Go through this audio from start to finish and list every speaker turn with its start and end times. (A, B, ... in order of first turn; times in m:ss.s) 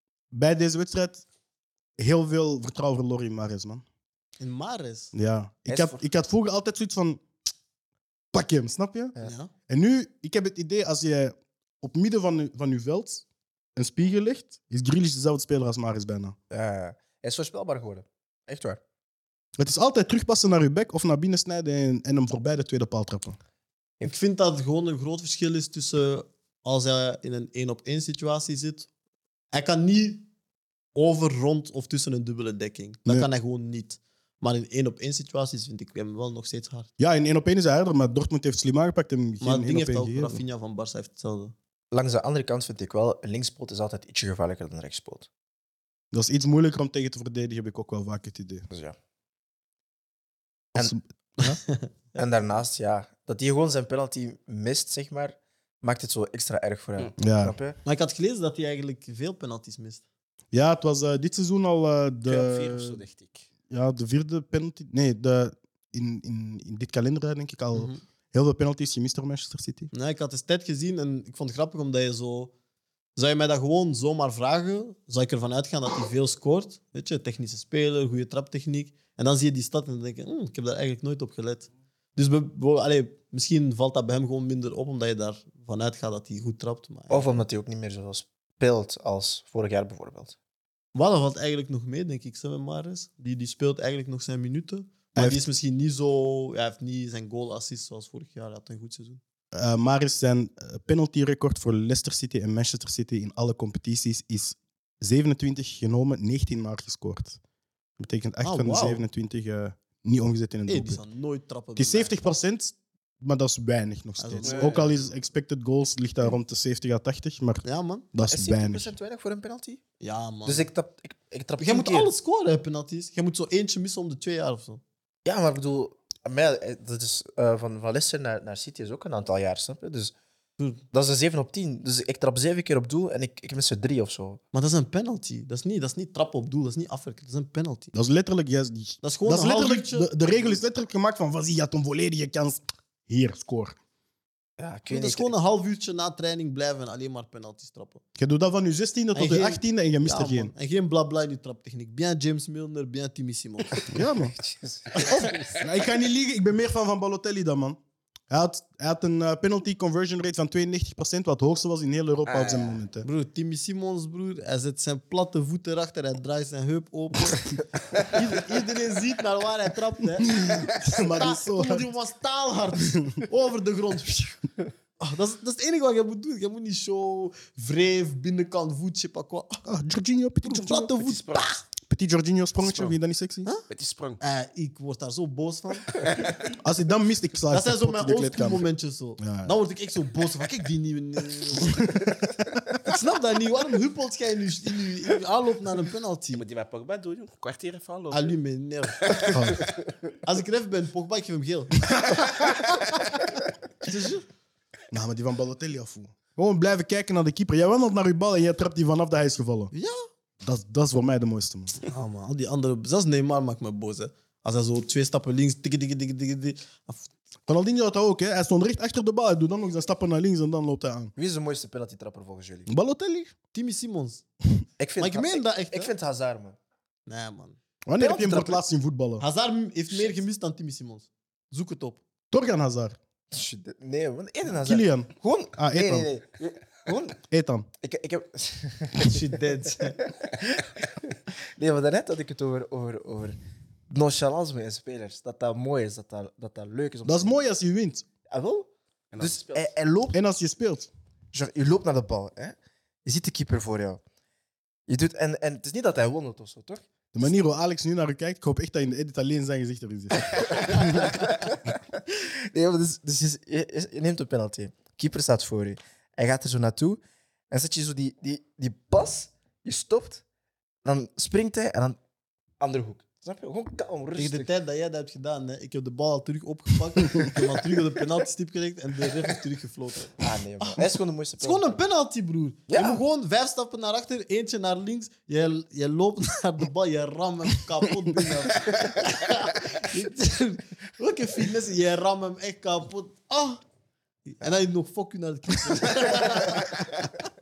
0:00.3-0:01.2 A
0:02.0-0:03.8 A
0:04.4-0:05.1 B
0:05.1-0:07.2 A
0:05.7-0:06.0 C
0:08.3-0:09.2 A
0:09.2-0:09.5 B
0:09.7-0:13.2 A
0:13.8-0:16.4 A
0:16.5-0:18.8 C
0:19.6-0:23.4 A
0:24.0-0:28.9 B
0:29.5-0:30.3 B
0:31.0-0:36.9 B
0:37.0-0:40.4 A
0:39.4-0:41.5 B
0:41.9-0:45.3 C
0:46.1-0:48.7 A
0:48.7-0:49.0 C
0:50.8-0:51.0 A
0:52.2-0:57.8 C
0:57.2-0:57.6 A
0:57.8-1:00.0 B
1:00.5-1:03.0 A
1:02.2-1:03.5 D
1:03.7-1:09.9 A
1:07.7-1:08.0 B
1:09.9-1:12.5 B
1:13.2-1:27.4 B
1:27.1-1:30.4 C
1:31.0-1:39.2 B
1:35.2-1:35.4 A
1:39.5-1:47.4 A
1:48.0-1:51.0 A
1:48.4-1:49.1 B
1:50.7-1:52.2 B
1:51.8-1:58.9 A
1:54.2-1:54.9 B
1:54.4-1:54.9 D
1:57.6-1:58.1 B
1:58.3-1:59.8 C
2:00.0-2:00.7 B
2:00.4-2:02.1 C
2:01.6-2:04.8 B
2:05.2-2:10.1 C
2:10.9-2:14.4 C
2:14.5-2:17.9 B
2:17.9-2:23.8 A
2:19.0-2:20.6 B
2:24.6-2:25.3 C
2:24.9-2:28.0 B
2:28.2-2:30.5 A
2:29.1-2:33.9 B
2:33.9-2:34.4 A
2:34.0-2:35.6 C
2:35.0-2:35.3 B
2:35.1-2:37.8 A
2:38.3-2:43.1 A
2:42.3-2:42.8 C
2:43.0-2:50.4 B
2:50.2-2:51.9 A
2:51.0-2:54.4 B
2:55.0-2:59.6 B
2:59.6-3:01.0 A
3:00.4-3:01.5 B
3:01.0-3:01.6 D
3:01.9-3:03.5 A
3:02.6-3:03.0 D
3:03.7-3:04.2 D
3:04.2-3:06.0 B
3:06.0-3:06.4 D
3:06.6-3:08.7 A
3:07.5-3:11.8 B
3:09.2-3:09.5 A
3:11.6-3:12.1 A
3:12.9-3:16.4 B
3:16.3-3:18.4 D
3:18.1-3:19.0 B
3:19.0-3:19.7 D
3:19.3-3:19.7 A
3:20.2-3:21.9 B
3:23.8-3:24.3 B
3:24.9-3:29.7 A
3:29.7-3:30.1 B
3:30.4-3:31.8 A
3:31.9-3:37.1 B
3:37.5-3:41.1 A
3:41.2-3:42.7 C
3:42.7-3:43.3 A
3:43.5-3:44.2 B
3:44.8-3:46.6 C
3:45.0-3:45.9 B
3:47.1-3:47.6 B
3:47.9-3:49.2 A
3:48.0-3:48.6 C
3:49.2-3:52.0 B
3:52.3-3:53.0 A
3:53.3-3:57.2 C
3:54.6-3:56.1 A
3:57.3-3:57.7 A
3:57.8-3:59.2 C
3:59.0-4:00.0 B
4:00.2-4:00.9 C
4:01.5-4:03.4 C
4:03.9-4:07.4 C
4:07.0-4:08.1 A
4:08.3-4:10.2 C
4:09.1-4:09.6 D
4:10.1-4:10.9 A
4:11.3-4:14.0 C
4:14.9-4:17.3 C
4:17.1-4:21.2 A
4:20.3-4:30.2 C
4:30.8-4:32.0 C
4:32.6-4:34.5 C
4:34.2-4:40.9 B
4:40.2-4:41.8 C
4:41.4-4:53.6 B
4:42.7-4:43.0 C
4:54.3-4:56.8 B